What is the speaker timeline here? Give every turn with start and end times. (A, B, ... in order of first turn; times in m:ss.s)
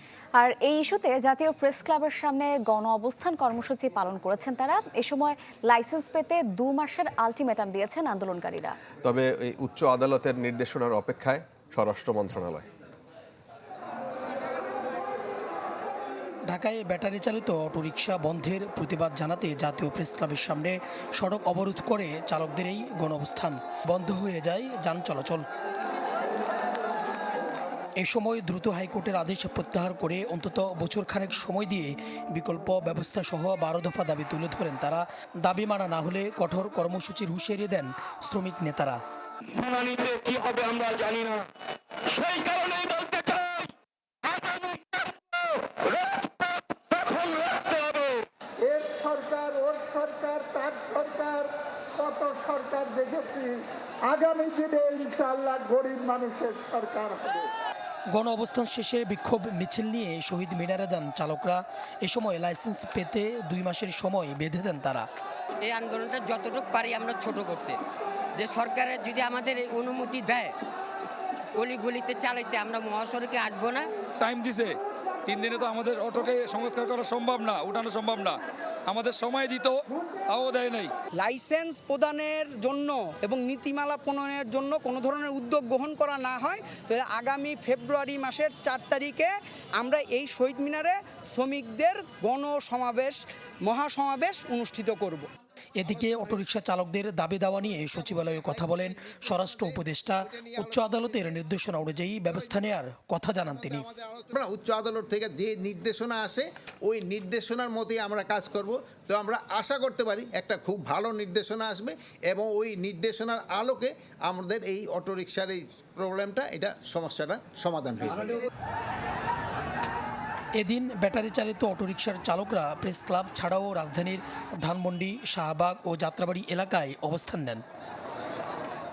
0:00.4-0:08.8 A
0:09.0-0:12.7 B
0:16.5-0:25.5 C
0:28.0-0:39.0 C
0:39.6-0:41.5 D
0:42.1-0:43.7 D
0:44.3-0:44.8 D
0:45.9-0:48.2 D
0:48.7-0:57.5 E
0:58.1-1:05.1 C
1:05.6-1:07.8 F
1:08.4-1:10.5 F
1:11.6-1:13.9 F
1:14.2-1:14.8 G
1:15.3-1:19.8 G
1:20.3-1:20.9 G
1:21.2-1:35.3 H
1:35.8-1:43.9 C
1:35.9-1:36.1 I
1:38.1-1:41.2 I
1:42.4-1:42.6 I
1:43.6-1:58.4 I
2:00.6-2:07.6 C